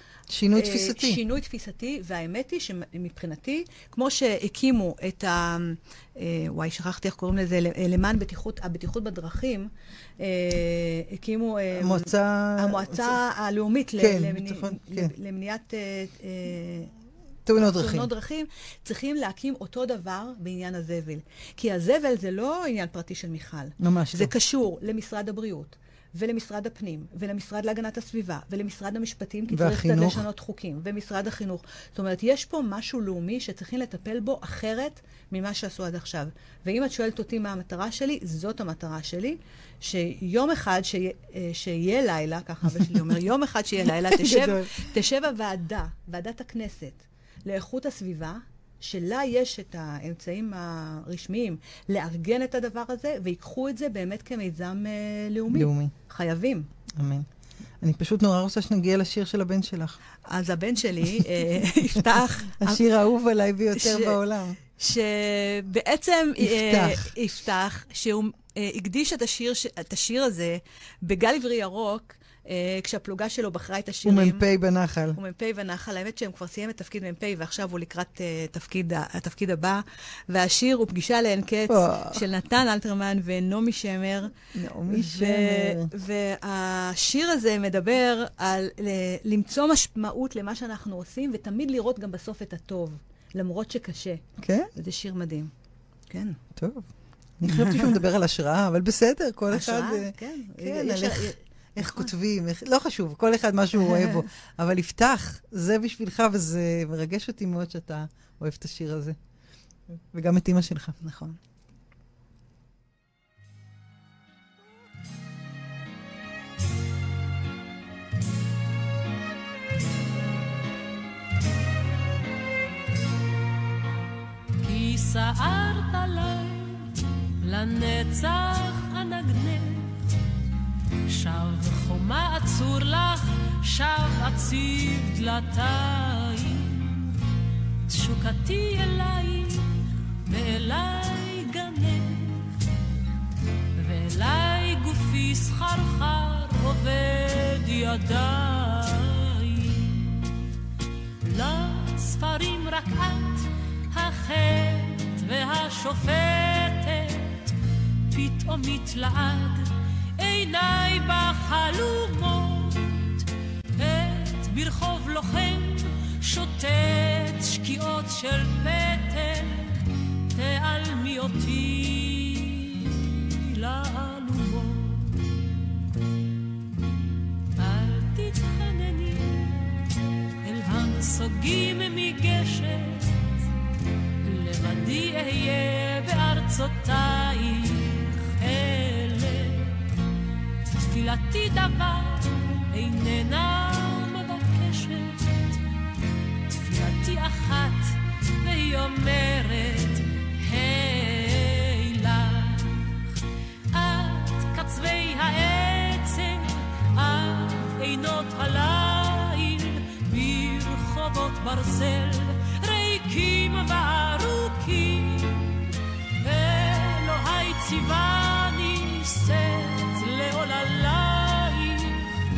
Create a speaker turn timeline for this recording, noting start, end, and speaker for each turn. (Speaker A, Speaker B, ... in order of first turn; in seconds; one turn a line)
Speaker A: 0.3-1.2
Speaker B: 0.5-16.9
Speaker A: 11.8-13.2
Speaker A: 14.0-15.1
Speaker A: 17.4-18.1
Speaker B: 17.5-56.7
Speaker A: 23.8-24.3
Speaker A: 29.5-30.2
Speaker A: 44.0-44.8
Speaker A: 55.5-55.9
Speaker A: 57.0-57.2
Speaker A: 57.8-60.0
Speaker B: 60.3-62.8
Speaker A: 62.6-64.6
Speaker B: 63.8-64.2
Speaker B: 64.7-74.4
Speaker A: 66.4-67.1
Speaker A: 74.0-75.2
Speaker B: 75.1-95.5
Speaker A: 81.7-82.2
Speaker A: 84.5-85.9
Speaker A: 94.4-94.7
Speaker B: 96.1-96.4
Speaker A: 96.5-96.9
Speaker A: 97.4-109.2
Speaker B: 97.5-98.0
Speaker B: 99.5-102.1
Speaker B: 103.8-104.2
Speaker A: 110.1-111.0
Speaker B: 111.0-111.4
Speaker C: 124.6-130.0
Speaker C: 131.1-137.2
Speaker C: 137.9-142.5
Speaker C: 143.8-150.5
Speaker C: 151.2-157.6
Speaker C: 158.1-175.6
Speaker C: 177.6-179.9
Speaker C: 180.4-183.4
Speaker C: 184.2-189.8
Speaker C: 190.7-195.6
Speaker C: 196.5-203.1
Speaker C: 203.7-222.2